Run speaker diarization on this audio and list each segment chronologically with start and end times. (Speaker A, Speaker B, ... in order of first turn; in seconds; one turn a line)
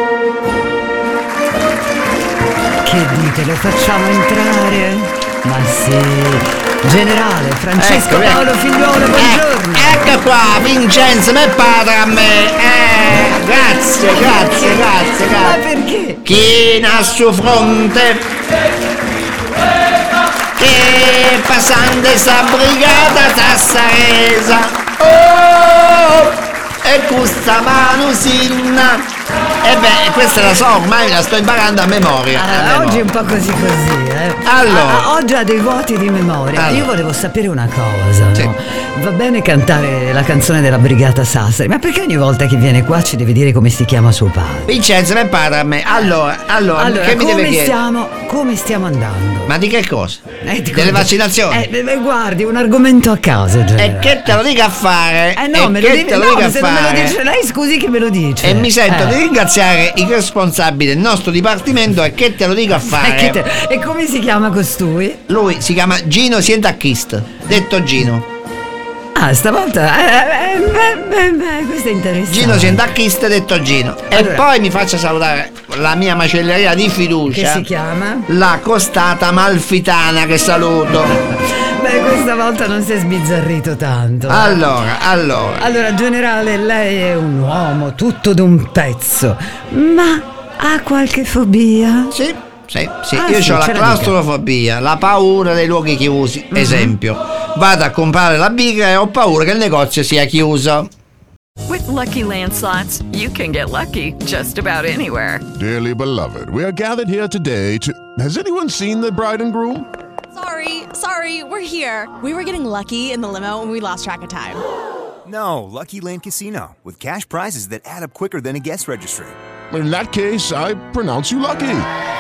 Speaker A: 2.8-10.1
Speaker B: 7.8-8.5
Speaker B: 9.1-15.6
Speaker A: 14.1-16.2
Speaker B: 16.2-18.3
Speaker B: 20.6-29.1
Speaker B: 29.6-33.1
Speaker A: 32.3-44.7
Speaker B: 34.5-35.1
Speaker B: 36.6-36.9
Speaker B: 44.7-47.8
Speaker A: 46.8-49.5
Speaker B: 49.5-51.7
Speaker A: 50.4-54.4
Speaker B: 53.8-57.2
Speaker A: 55.4-59.2
Speaker B: 58.4-63.4
Speaker A: 62.7-65.2
Speaker B: 65.3-68.3
Speaker A: 69.2-72.8
Speaker B: 72.3-77.7
Speaker A: 74.1-74.5
Speaker A: 77.3-78.3
Speaker B: 78.3-81.2
Speaker A: 81.0-84.6
Speaker B: 84.3-85.7
Speaker A: 85.6-92.2
Speaker B: 92.1-100.9
Speaker A: 93.1-94.1
Speaker A: 96.5-96.9
Speaker C: 101.7-105.5
Speaker D: 105.6-109.9
Speaker E: 110.4-114.6
Speaker F: 115.2-119.4
Speaker D: 119.7-121.9